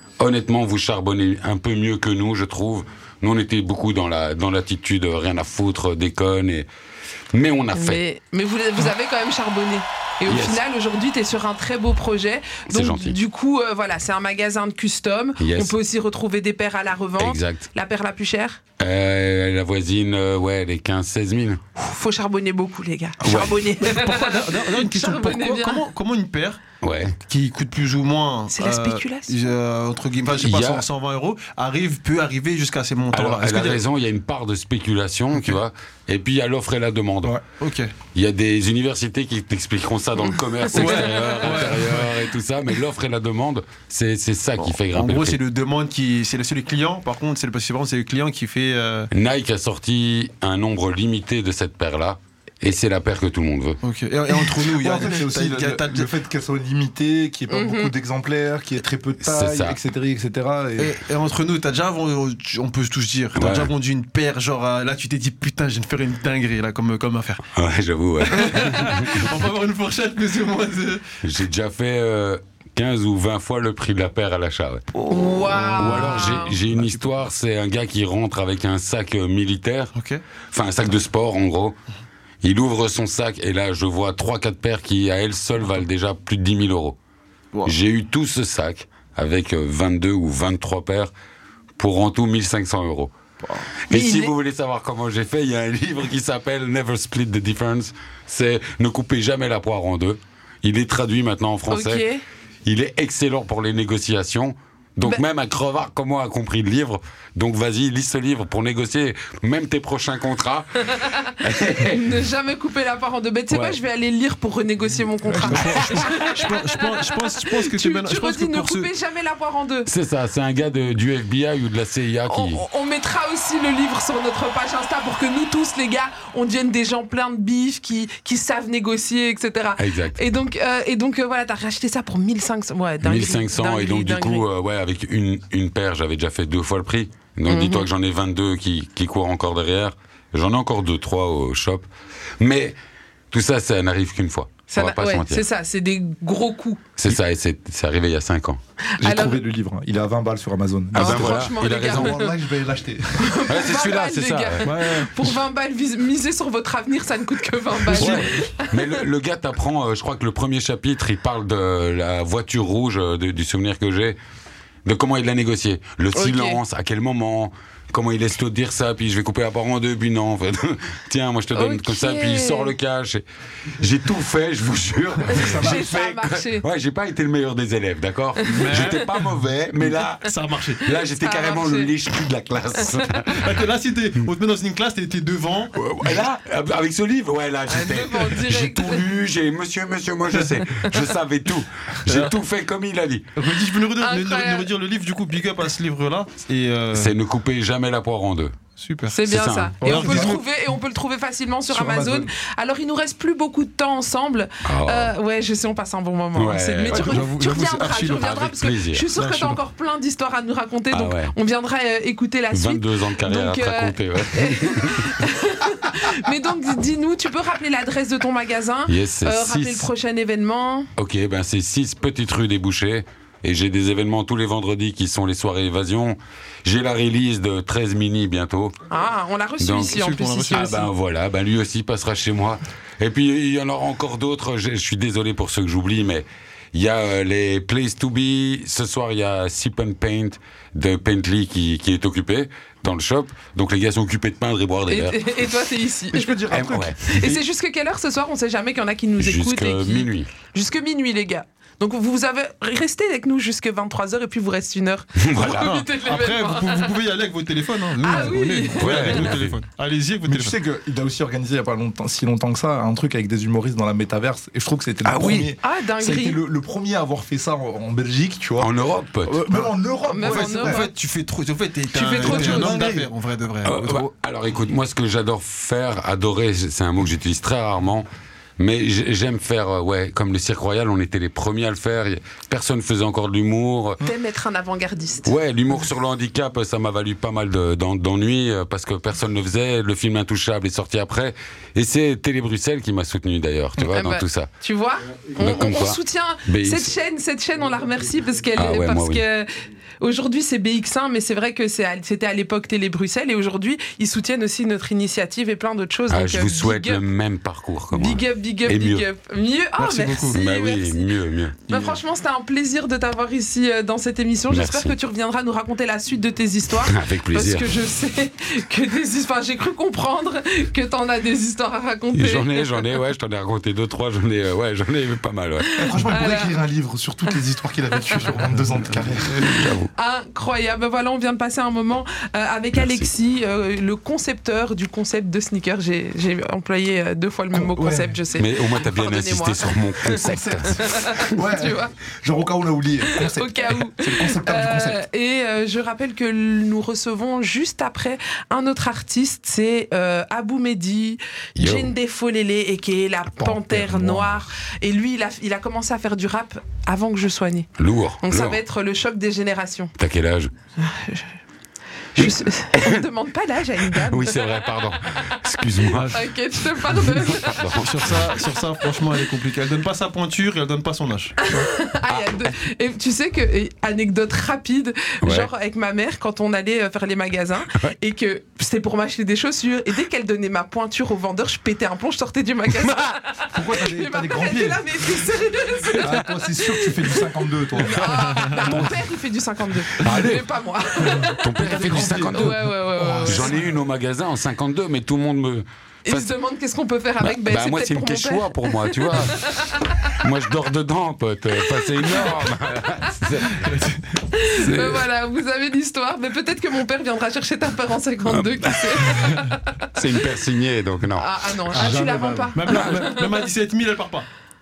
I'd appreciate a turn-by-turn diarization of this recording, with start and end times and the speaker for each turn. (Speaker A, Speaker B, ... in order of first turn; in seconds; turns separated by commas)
Speaker A: 0.2-6.7, Speaker A: 7.3-8.0, Speaker B: 7.7-18.6, Speaker A: 10.3-10.6, Speaker A: 12.7-13.2, Speaker A: 15.4-15.8, Speaker A: 17.2-17.7, Speaker A: 18.8-21.6, Speaker B: 21.8-25.8, Speaker A: 23.2-23.6, Speaker C: 23.8-26.6, Speaker A: 26.8-27.2, Speaker C: 27.2-33.8, Speaker B: 28.5-29.3, Speaker A: 30.4-30.9, Speaker A: 33.1-37.4, Speaker C: 37.5-37.9, Speaker A: 38.1-45.4, Speaker C: 40.7-42.1, Speaker C: 44.9-49.1, Speaker A: 49.1-53.8, Speaker C: 53.8-56.1, Speaker D: 54.6-61.0, Speaker B: 57.5-57.9, Speaker A: 59.2-59.8, Speaker C: 60.8-67.4, Speaker A: 63.4-63.7, Speaker A: 67.6-69.3, Speaker C: 68.2-71.0, Speaker A: 71.2-74.9, Speaker B: 75.1-76.6, Speaker A: 75.8-79.9, Speaker C: 76.6-77.2, Speaker C: 80.0-80.2, Speaker A: 80.5-81.8, Speaker A: 82.4-87.0, Speaker A: 87.7-91.1, Speaker A: 91.8-93.1, Speaker C: 93.4-93.7, Speaker B: 93.9-94.3, Speaker A: 93.9-102.0, Speaker B: 101.7-102.2, Speaker A: 102.7-112.2, Speaker B: 111.0-119.9, Speaker D: 115.3-116.0, Speaker C: 115.4-118.9, Speaker A: 119.9-122.6, Speaker B: 122.3-134.4, Speaker A: 129.8-130.2, Speaker A: 133.0-141.9, Speaker B: 137.5-137.9, Speaker A: 142.4-142.8, Speaker A: 143.3-145.4, Speaker B: 144.7-146.8, Speaker A: 147.0-148.6, Speaker B: 149.0-149.4, Speaker D: 149.0-153.5, Speaker A: 150.9-152.2, Speaker B: 150.9-152.3, Speaker B: 153.2-159.0, Speaker A: 153.5-154.7, Speaker C: 154.6-155.1, Speaker A: 157.9-164.2, Speaker C: 157.9-158.3, Speaker A: 164.8-173.2, Speaker B: 166.2-166.6, Speaker B: 171.6-172.7, Speaker A: 173.8-180.3, Speaker D: 175.3-175.9, Speaker B: 175.6-176.7, Speaker C: 178.5-180.9, Speaker A: 180.8-183.4, Speaker B: 181.2-181.9, Speaker C: 183.4-185.7, Speaker A: 185.8-193.3, Speaker B: 187.7-189.0, Speaker C: 192.1-192.3, Speaker C: 193.4-197.1, Speaker B: 194.0-194.7, Speaker A: 196.9-198.5, Speaker C: 198.8-199.2, Speaker B: 199.1-220.9, Speaker A: 199.3-200.2, Speaker C: 199.8-200.4, Speaker D: 199.8-200.4, Speaker D: 201.7-202.3, Speaker A: 204.7-205.1, Speaker A: 206.3-207.3, Speaker C: 206.9-208.3, Speaker A: 208.0-209.1, Speaker C: 209.2-209.6, Speaker A: 210.9-211.3, Speaker A: 212.5-215.2, Speaker A: 218.9-219.9, Speaker A: 221.0-228.7, Speaker B: 228.9-230.9, Speaker A: 229.6-230.0, Speaker C: 229.8-230.9, Speaker A: 230.5-245.3, Speaker B: 244.9-246.4, Speaker D: 246.1-247.4, Speaker A: 246.5-247.0, Speaker B: 247.0-256.9, Speaker A: 249.2-250.3, Speaker A: 255.2-255.8, Speaker C: 255.4-260.6, Speaker B: 258.0-259.2, Speaker A: 258.8-259.6, Speaker D: 260.3-268.7, Speaker A: 265.1-265.5, Speaker B: 265.6-266.4, Speaker A: 268.6-269.6, Speaker D: 269.2-270.9, Speaker B: 270.1-270.9, Speaker C: 270.2-274.1, Speaker B: 271.9-272.8, Speaker D: 272.2-273.1, Speaker A: 273.6-278.1, Speaker A: 278.6-284.0, Speaker B: 284.0-285.3, Speaker A: 285.3-294.5, Speaker B: 293.8-299.5, Speaker A: 295.4-296.9, Speaker A: 298.6-299.2, Speaker B: 300.0-307.0, Speaker A: 306.1-309.1, Speaker B: 307.9-311.1, Speaker C: 309.8-310.4, Speaker A: 310.3-311.6, Speaker B: 311.7-322.7, Speaker A: 314.5-314.9, Speaker A: 316.9-317.6, Speaker A: 322.1-325.9, Speaker B: 325.8-326.6, Speaker D: 325.8-329.5, Speaker A: 329.4-329.9, Speaker B: 330.0-341.9, Speaker A: 332.8-333.1, Speaker D: 337.5-338.2, Speaker A: 338.4-340.8, Speaker D: 340.2-345.0, Speaker B: 343.2-357.7, Speaker A: 351.6-351.9, Speaker D: 353.4-354.5, Speaker A: 357.8-358.6, Speaker B: 358.2-359.9, Speaker A: 360.0-360.5, Speaker B: 360.8-361.3, Speaker B: 362.1-364.7, Speaker A: 362.2-363.1, Speaker A: 363.9-366.1, Speaker C: 365.9-366.2, Speaker B: 366.1-367.6, Speaker A: 366.9-368.4, Speaker C: 367.7-371.7, Speaker B: 371.4-387.2, Speaker A: 372.1-372.5, Speaker A: 375.2-375.5, Speaker D: 383.5-384.8, Speaker D: 386.0-388.6, Speaker B: 387.8-391.4, Speaker A: 388.6-388.9, Speaker A: 390.0-390.5, Speaker A: 391.4-392.6, Speaker D: 391.5-393.7, Speaker B: 391.9-393.6, Speaker A: 393.2-396.3, Speaker B: 396.1-400.2, Speaker A: 397.2-399.4, Speaker A: 400.2-403.7, Speaker B: 401.8-402.5, Speaker C: 403.6-404.0, Speaker B: 404.3-409.8, Speaker A: 404.6-405.1, Speaker A: 408.3-409.3, Speaker A: 409.9-411.3, Speaker B: 411.2-413.2, Speaker C: 411.7-414.3, Speaker D: 411.8-412.5